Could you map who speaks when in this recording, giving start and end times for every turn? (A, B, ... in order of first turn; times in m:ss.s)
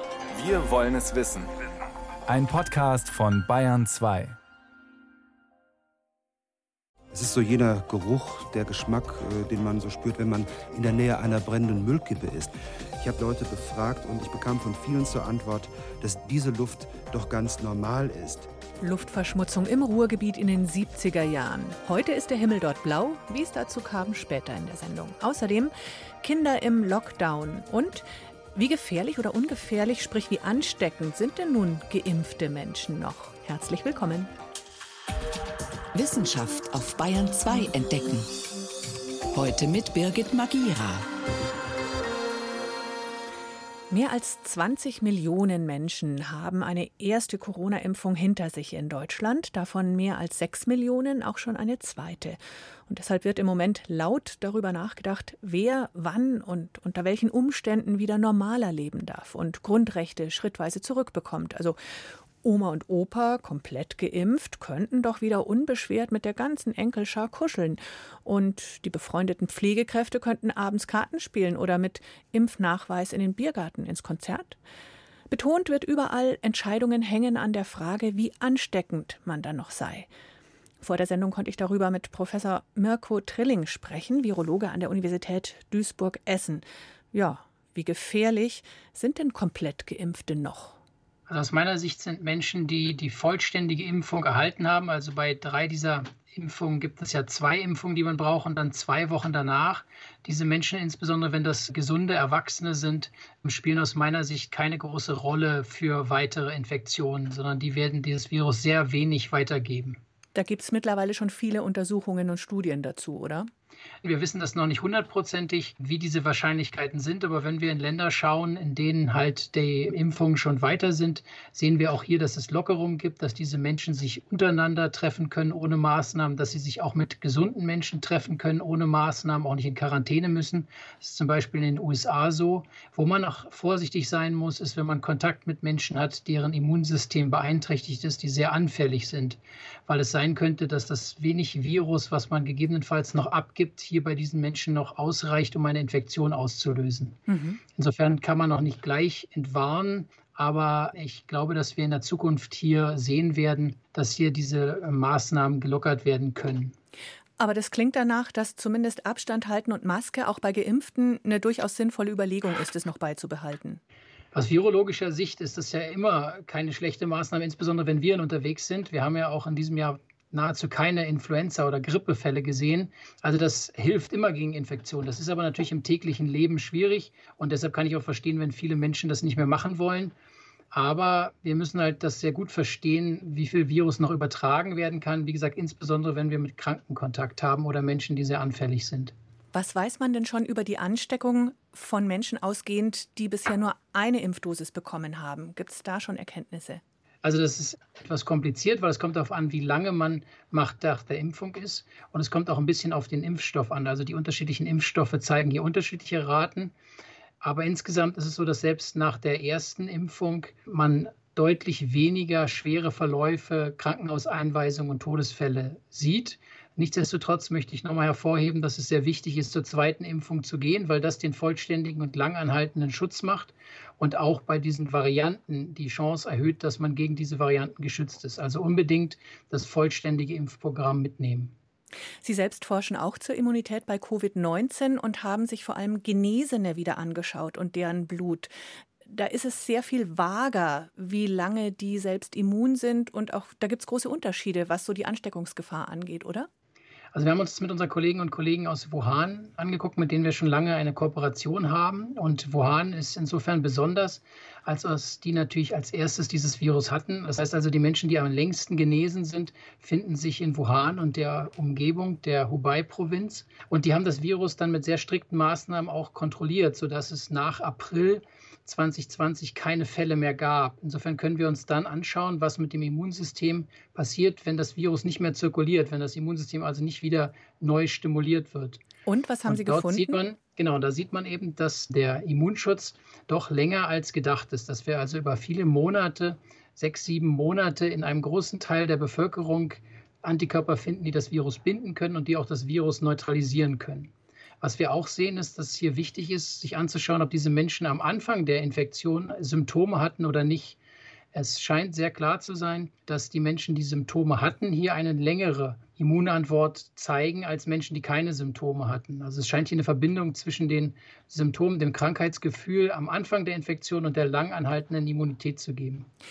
0:00.3-0:01.6 A
0:02.3-0:04.4 A
0:07.1-0:18.5 B
0:18.8-0:34.3 C
0:35.9-0:38.3 D
0:39.3-0:41.1 D
0:43.9-1:14.6 C
1:15.3-1:20.1 C
1:20.8-1:30.8 C
1:31.3-1:50.0 E
1:50.3-1:53.5 C
1:54.0-2:27.2 E
2:27.3-2:27.6 C
2:27.8-2:36.7 E
2:37.4-2:43.8 C
2:44.3-3:00.1 E
3:00.7-3:09.1 E
3:09.5-3:16.8 C
3:17.2-3:26.7 E
3:27.4-3:51.5 E
3:52.2-3:58.5 C
3:59.0-4:06.5 C
4:07.1-4:38.8 E
4:39.0-4:40.2 C
4:39.5-5:00.8 E
5:01.3-5:16.1 E